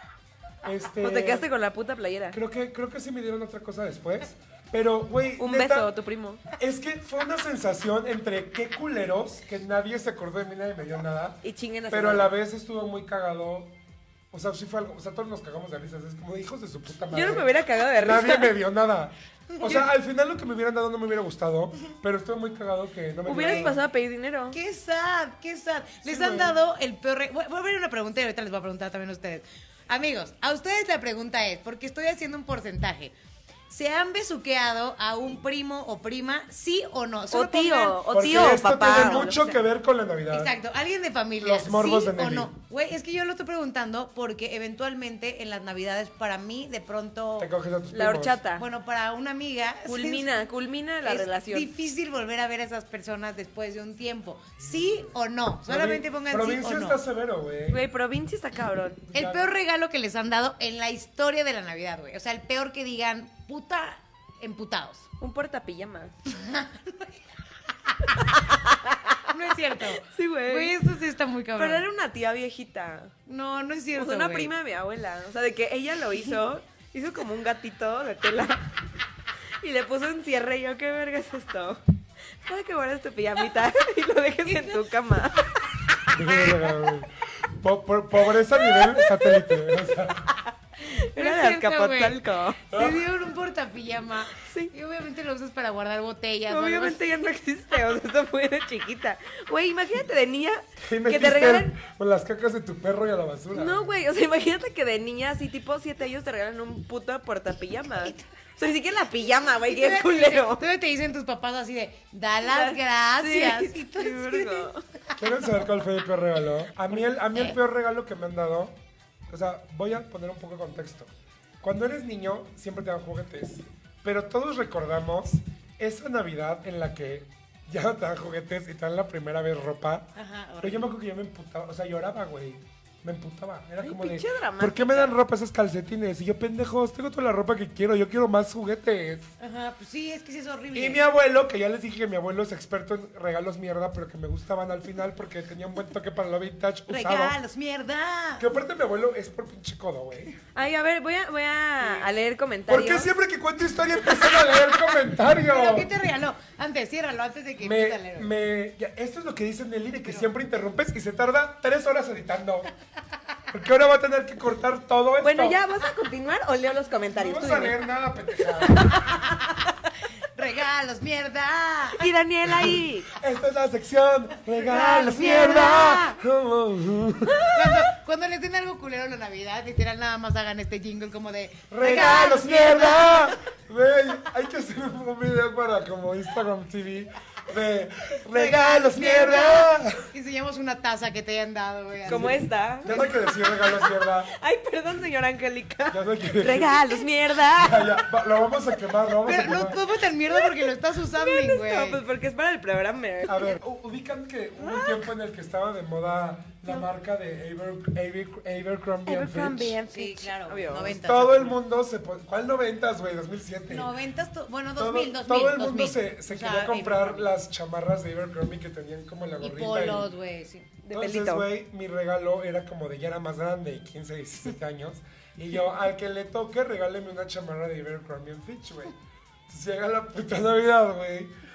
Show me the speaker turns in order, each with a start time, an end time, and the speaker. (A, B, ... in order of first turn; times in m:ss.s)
0:00.6-0:01.5 A
0:01.0-0:02.4 B
0:02.3-0:05.9 A
0:05.4-0:06.4 B
0:06.6-0:13.8 A
0:11.4-0:12.3 B
0:14.3-0:23.8 A
0:17.1-0:18.5 B
0:19.5-0:19.9 C
0:23.3-0:24.6 B
0:23.4-0:23.7 C
0:24.5-0:33.1 C
0:26.0-0:26.6 A
0:33.7-0:39.6 C
0:37.3-0:39.4 B
0:38.1-0:40.5 A
0:40.3-0:47.5 C
0:41.4-0:42.5 A
0:47.4-0:48.4 A
0:47.9-0:48.6 B
0:48.6-0:50.3 C
0:49.9-0:51.7 B
0:51.0-0:57.0 C
0:55.7-0:57.8 A
0:57.7-0:59.0 B
0:59.1-0:59.5 A
0:59.1-1:05.1 C
1:05.2-1:06.2 B
1:06.3-1:07.1 C
1:08.2-1:09.2 B
1:09.3-1:11.8 C
1:10.0-1:10.8 B
1:11.6-1:13.1 B
1:13.3-1:14.5 C
1:14.0-1:18.7 B
1:19.6-1:21.8 B
1:22.4-1:26.0 B
1:26.1-1:30.3 A
1:28.6-1:29.9 B
1:30.8-1:32.6 B
1:30.8-1:37.0 C
1:32.7-1:33.1 A
1:34.3-1:34.7 B
1:36.5-1:41.7 B
1:40.8-1:43.9 A
1:43.5-1:50.6 B
1:49.6-1:55.5 C
1:52.5-1:54.8 B
1:55.2-1:58.8 A
1:56.9-1:57.6 C
1:59.3-2:19.3 A
2:10.2-2:10.9 C
2:13.8-2:15.2 B
2:19.4-2:21.0 C
2:20.7-2:27.4 A
2:26.9-2:28.5 C
2:28.4-2:30.4 A
2:30.6-2:33.1 B
2:32.7-2:35.9 A
2:35.2-2:38.3 C
2:37.6-2:42.7 A
2:43.5-2:45.6 A
2:45.2-2:47.8 B
2:47.1-2:49.0 A
2:48.6-2:49.2 B
2:50.4-2:52.0 C
2:52.0-2:53.1 B
2:52.6-2:57.5 A
2:54.7-2:56.1 B
2:54.7-2:56.2 C
2:57.3-2:57.7 B
2:57.5-3:03.4 C
3:01.7-3:10.1 A
3:01.8-3:02.9 B
3:08.3-3:12.4 C
3:12.1-3:14.3 A
3:12.1-3:18.1 B
3:15.9-3:19.8 A
3:19.2-3:22.0 C
3:20.3-3:23.6 B
3:23.2-3:29.8 A
3:24.6-3:25.1 B
3:29.1-3:31.0 B
3:29.9-3:31.6 C
3:30.9-3:33.9 A
3:33.7-3:37.3 C
3:34.8-3:40.1 A
3:39.4-3:40.7 C
3:40.8-3:41.5 B
3:40.9-3:48.9 A
3:49.5-3:51.3 A